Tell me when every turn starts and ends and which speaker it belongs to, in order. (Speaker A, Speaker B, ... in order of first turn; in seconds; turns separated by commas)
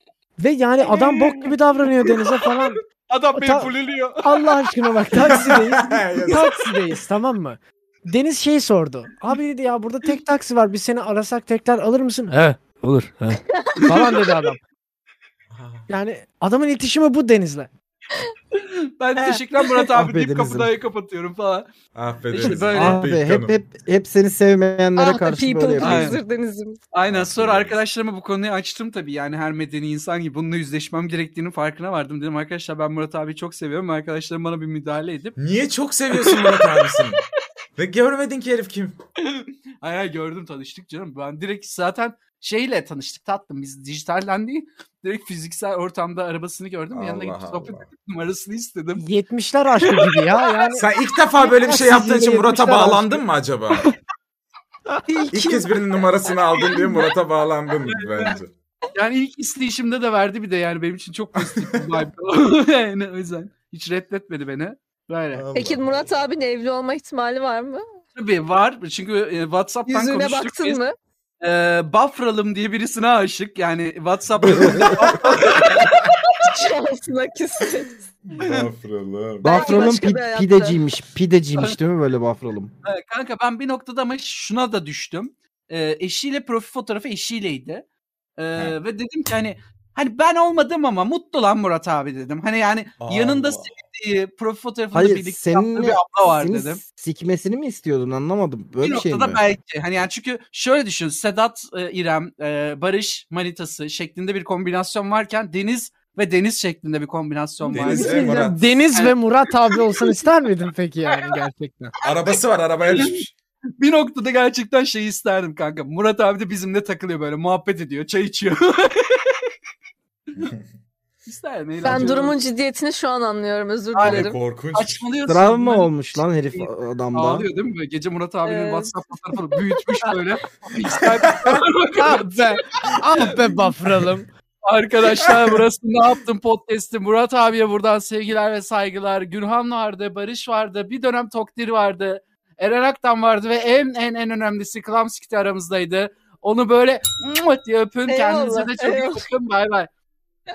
Speaker A: 0.4-2.8, Speaker B: 0.8-5.5, Speaker A: 3.3-14.6, Speaker C: 5.2-6.5, Speaker B: 13.8-14.2, Speaker C: 15.5-15.9, Speaker A: 15.9-17.7, Speaker B: 18.5-21.7, Speaker D: 19.2-19.4, Speaker E: 19.9-20.7, Speaker C: 21.9-23.6, Speaker B: 22.3-23.1, Speaker E: 22.5-26.2, Speaker D: 25.0-26.8, Speaker B: 25.8-26.2, Speaker B: 26.9-35.4, Speaker C: 27.1-27.8, Speaker C: 35.4-37.2, Speaker B: 36.1-37.1, Speaker C: 37.8-39.0, Speaker B: 39.2-49.1, Speaker C: 46.9-47.9, Speaker A: 49.0-50.9, Speaker B: 49.8-50.2, Speaker C: 50.8-53.9, Speaker A: 51.4-53.2, Speaker D: 55.1-55.6, Speaker C: 55.3-58.5, Speaker B: 57.8-58.4, Speaker B: 58.9-65.5, Speaker C: 61.4-61.9, Speaker C: 65.3-66.0, Speaker D: 65.5-67.8, Speaker B: 68.2-70.8, Speaker D: 69.9-71.0, Speaker B: 71.4-76.4, Speaker C: 74.5-75.0, Speaker E: 74.5-74.9, Speaker D: 75.7-78.0, Speaker C: 78.3-79.9, Speaker B: 78.4-78.7, Speaker E: 79.4-82.7, Speaker D: 79.5-80.8, Speaker B: 82.8-87.8, Speaker B: 88.4-96.8, Speaker C: 93.0-93.7, Speaker E: 94.9-99.4, Speaker B: 98.8-109.2, Speaker C: 107.6-108.8, Speaker A: 107.7-111.9, Speaker B: 109.7-110.2, Speaker B: 111.1-111.4, Speaker C: 112.0-113.3, Speaker B: 112.9-113.2, Speaker B: 113.8-119.5, Speaker B: 121.3-122.3, Speaker D: 121.8-124.3, Speaker B: 124.0-133.4, Speaker C: 124.0-125.0, Speaker E: 125.3-127.5, Speaker D: 128.4-128.9, Speaker C: 130.8-131.6, Speaker A: 132.0-134.3, Speaker B: 134.6-149.9, Speaker C: 135.1-135.5, Speaker D: 148.1-149.2